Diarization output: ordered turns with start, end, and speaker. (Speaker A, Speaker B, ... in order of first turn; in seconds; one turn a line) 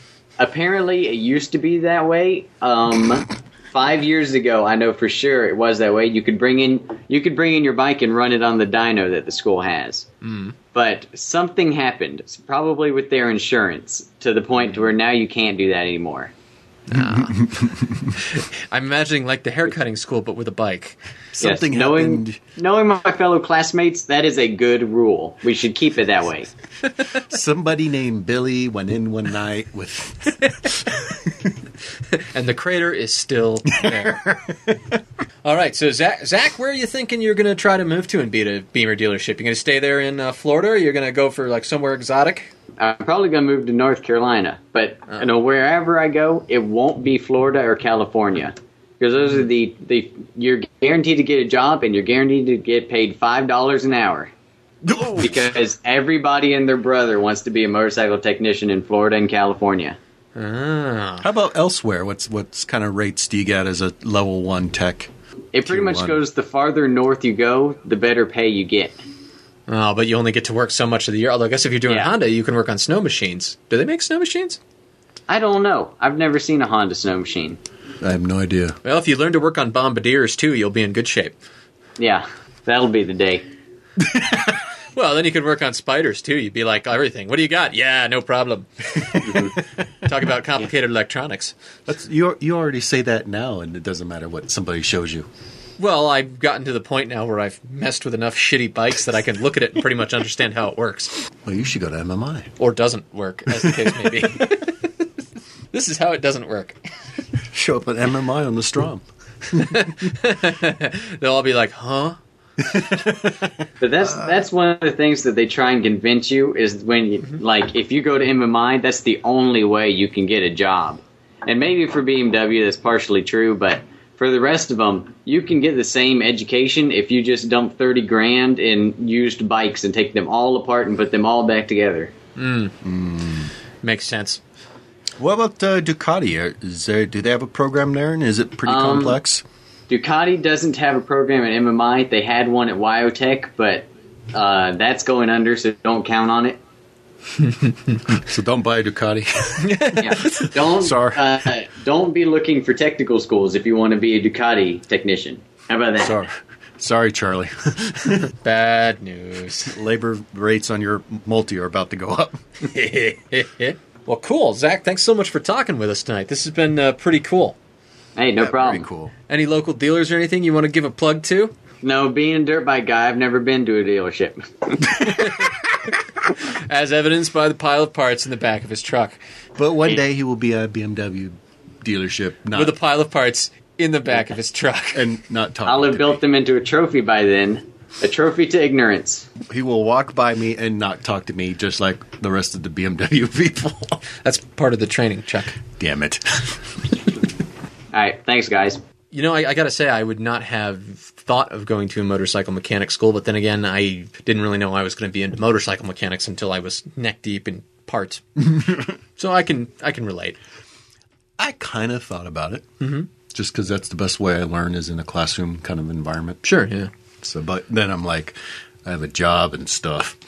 Speaker A: 0.4-10.1
Speaker B: 10.2-10.5
Speaker A: 10.7-16.3
Speaker B: 16.9-17.5
Speaker C: 16.9-18.2
Speaker B: 18.1-21.0
Speaker C: 21.3-22.4
Speaker A: 21.4-26.5
Speaker C: 27.1-31.5
Speaker B: 32.1-34.2
Speaker C: 33.8-34.8
Speaker B: 35.4-42.5
Speaker A: 42.8-54.3
Speaker C: 54.8-55.5
Speaker A: 55.2-60.0
Speaker B: 60.4-61.3
Speaker C: 61.2-65.1
Speaker A: 65.5-69.0
Speaker C: 65.6-66.2
Speaker B: 69.7-74.6
Speaker A: 71.9-72.1
Speaker A: 75.3-77.6
Speaker C: 78.0-78.8
Speaker B: 78.8-81.3
Speaker A: 82.0-83.4
Speaker C: 84.1-84.5
Speaker B: 84.9-91.5
Speaker C: 89.1-89.4
Speaker C: 91.8-95.3
Speaker B: 95.8-101.2
Speaker C: 101.4-102.5
Speaker B: 102.6-104.9
Speaker C: 103.6-104.3
Speaker B: 105.7-106.8
Speaker C: 107.4-109.9
Speaker B: 109.5-112.2
Speaker C: 112.6-114.3
Speaker A: 113.8-132.1
Speaker B: 132.3-132.7
Speaker C: 132.8-133.5
Speaker B: 133.8-134.4
Speaker C: 135.2-139.4
Speaker A: 138.7-139.2
Speaker A: 139.9-146.6
Speaker C: 148.1-151.5
Speaker B: 149.6-150.5
Speaker A: 150.0-156.2
Speaker C: 156.0-158.3
Speaker B: 158.4-159.8
Speaker C: 159.6-162.4
Speaker B: 162.6-167.6
Speaker A: 168.2-168.8
Speaker C: 168.4-169.1
Speaker B: 169.3-171.5
Speaker A: 171.8-175.2
Speaker B: 175.1-175.5
Speaker B: 176.3-179.2
Speaker C: 179.6-182.8
Speaker B: 182.5-185.1
Speaker C: 184.9-186.2
Speaker A: 185.6-189.3
Speaker C: 189.4-194.0
Speaker B: 194.2-195.6
Speaker C: 195.8-196.6
Speaker A: 197.9-198.8
Speaker B: 199.1-208.4
Speaker C: 208.6-208.9
Speaker B: 209.2-210.4
Speaker C: 211.4-216.4
Speaker B: 212.8-213.1
Speaker B: 216.4-216.9
Speaker C: 217.2-220.2